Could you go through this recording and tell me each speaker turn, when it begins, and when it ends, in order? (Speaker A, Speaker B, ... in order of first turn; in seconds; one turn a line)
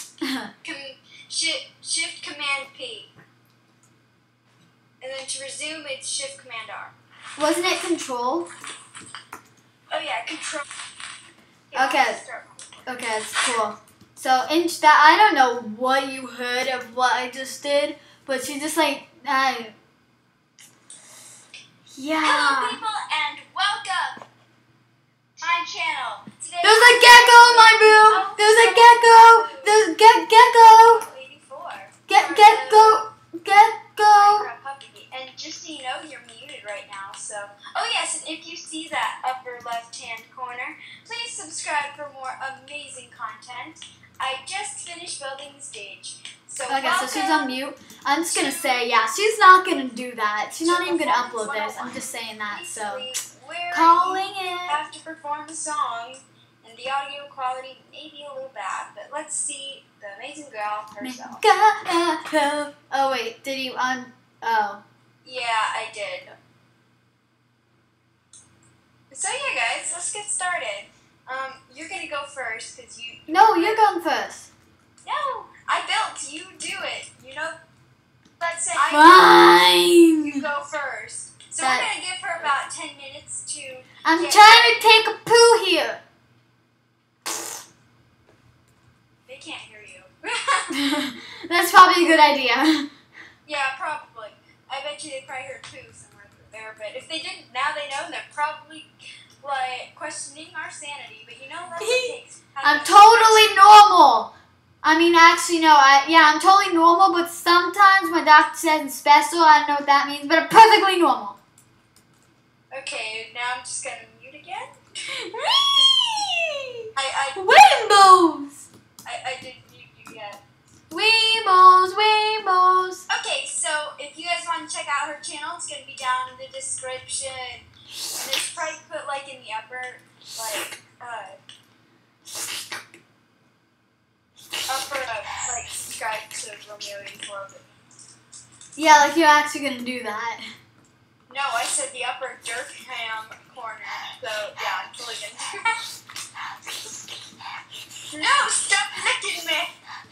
Speaker A: 0.2-0.5
Speaker B: 0.6-3.1
Speaker B: 5.0-6.9
Speaker A: 7.4-8.5
Speaker B: 9.9-10.7
Speaker B: 11.7-12.9
Speaker A: 11.7-12.2
Speaker A: 12.8-19.7
Speaker A: 21.9-22.8
Speaker B: 22.2-24.3
Speaker B: 25.4-33.1
Speaker A: 26.6-31.0
Speaker A: 32.1-34.5
Speaker B: 34.0-47.5
Speaker A: 46.7-53.0
Speaker B: 48.3-48.7
Speaker B: 50.6-61.4
Speaker A: 53.7-54.8
Speaker A: 61.0-64.8
Speaker B: 65.2-66.3
Speaker B: 69.1-73.9
Speaker A: 73.3-74.5
Speaker B: 75.0-77.6
Speaker B: 78.4-79.4
Speaker A: 78.9-80.4
Speaker B: 80.2-84.8
Speaker A: 81.6-81.9
Speaker A: 84.0-86.0
Speaker B: 89.3-90.7
Speaker A: 90.7-92.9
Speaker B: 93.5-103.5
Speaker A: 101.8-111.4
Speaker B: 112.7-114.7
Speaker A: 115.1-118.7
Speaker B: 115.7-116.0
Speaker B: 116.9-117.5
Speaker B: 119.0-120.4
Speaker A: 120.9-123.0
Speaker B: 123.1-131.4
Speaker B: 134.7-137.7
Speaker A: 138.8-140.4
Speaker B: 141.3-145.8
Speaker B: 148.1-149.7